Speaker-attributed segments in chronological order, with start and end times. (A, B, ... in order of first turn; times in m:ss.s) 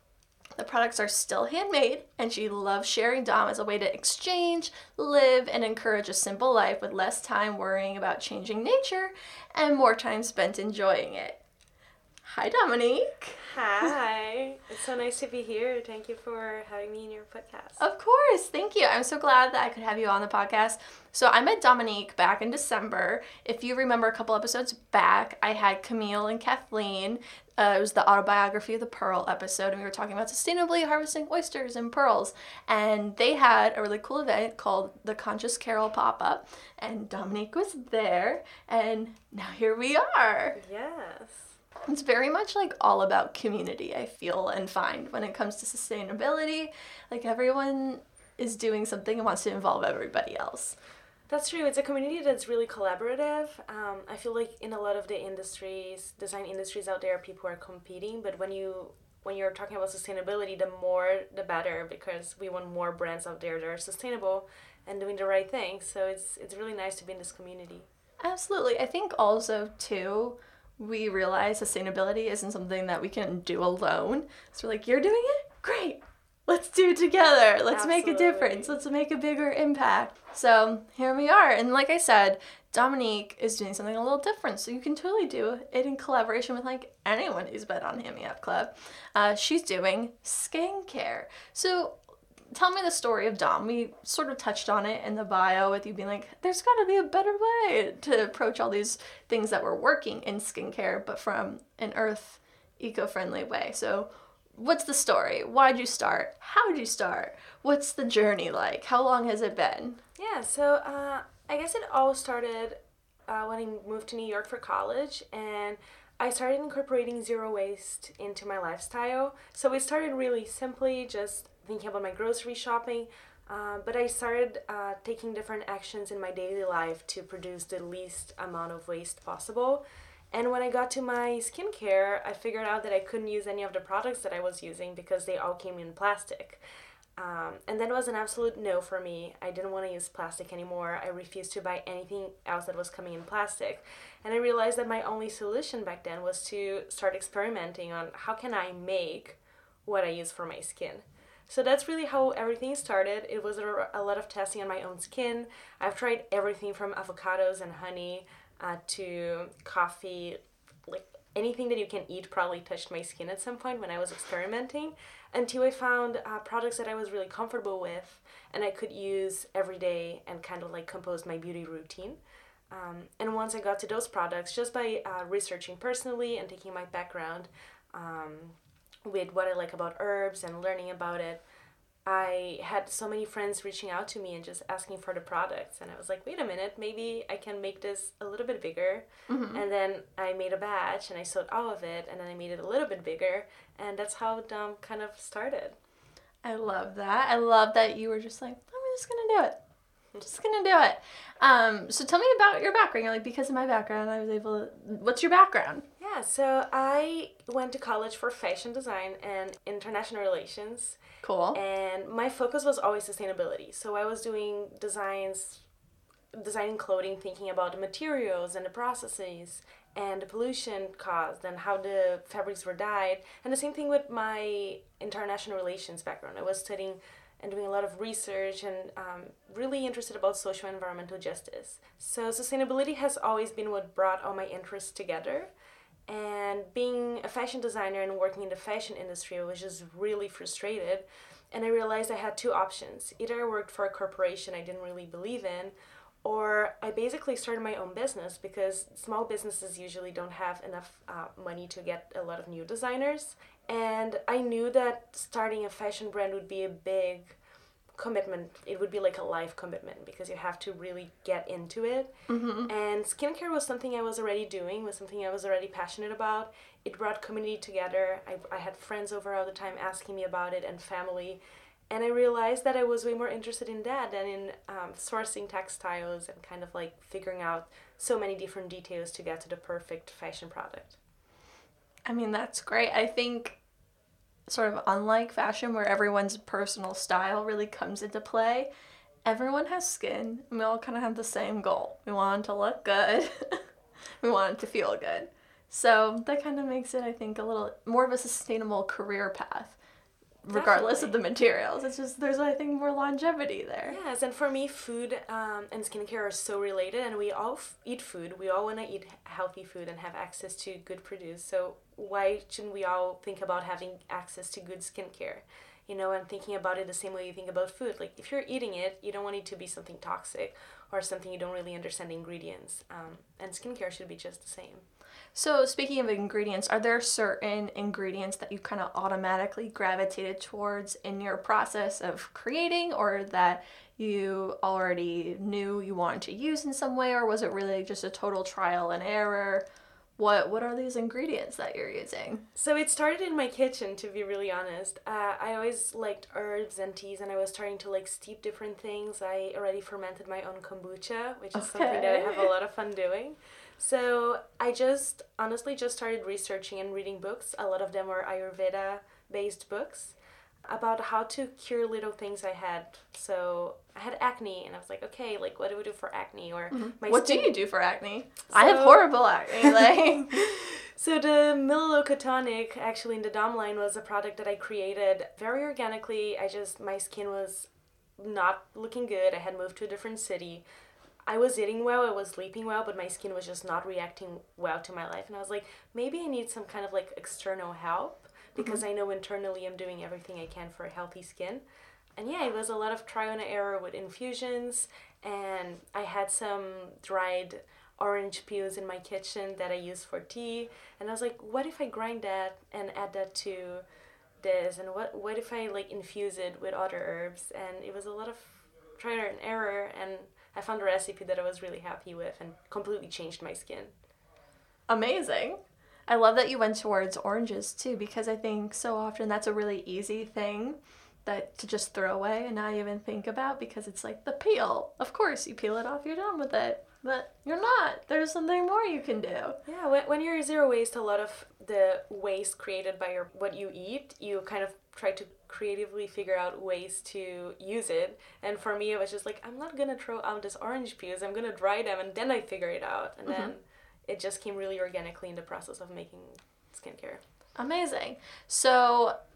0:00.6-0:11.4 A
0:12.2-0:13.4 A
0:13.4-0:17.8 B
0:17.8-0:40.6 A
0:40.6-0:41.6 B
0:41.8-0:50.8 A
0:51.3-1:07.9 B
1:08.2-1:32.0 A
1:17.7-1:18.8 B
1:32.5-1:50.0 A
1:50.2-2:16.6 B
2:17.2-2:52.2 B
2:52.7-3:01.4 B
3:02.0-3:15.8 B
3:09.3-3:09.6 A
3:16.4-3:19.6 A
3:20.2-3:25.8 A
3:26.0-3:31.0 B
3:31.2-3:31.6 A
3:31.5-3:35.6 B
3:36.3-3:55.5 B
3:56.1-4:05.7 B
4:06.2-4:17.4 B
4:18.0-4:22.1 B
4:22.3-4:22.7 A
4:22.6-4:41.0 B
4:42.0-4:43.6 A
4:44.5-4:48.7 A
4:49.2-4:53.6 A
4:54.2-4:59.8 A
5:00.4-5:04.0 A
5:00.5-5:01.1 B
5:03.8-5:24.8 B
5:25.3-5:39.6 A
5:40.2-5:42.4 A
5:42.6-6:00.1 B
5:51.5-5:52.5 A
6:00.7-6:07.6 B
6:06.7-6:10.5 A
6:08.5-6:20.6 B
6:21.3-6:31.6 B
6:32.2-6:43.8 B
6:44.4-6:53.9 B
6:54.9-7:09.6 A
7:09.6-7:27.2 B
7:23.3-7:23.5 A
7:27.6-7:29.1 A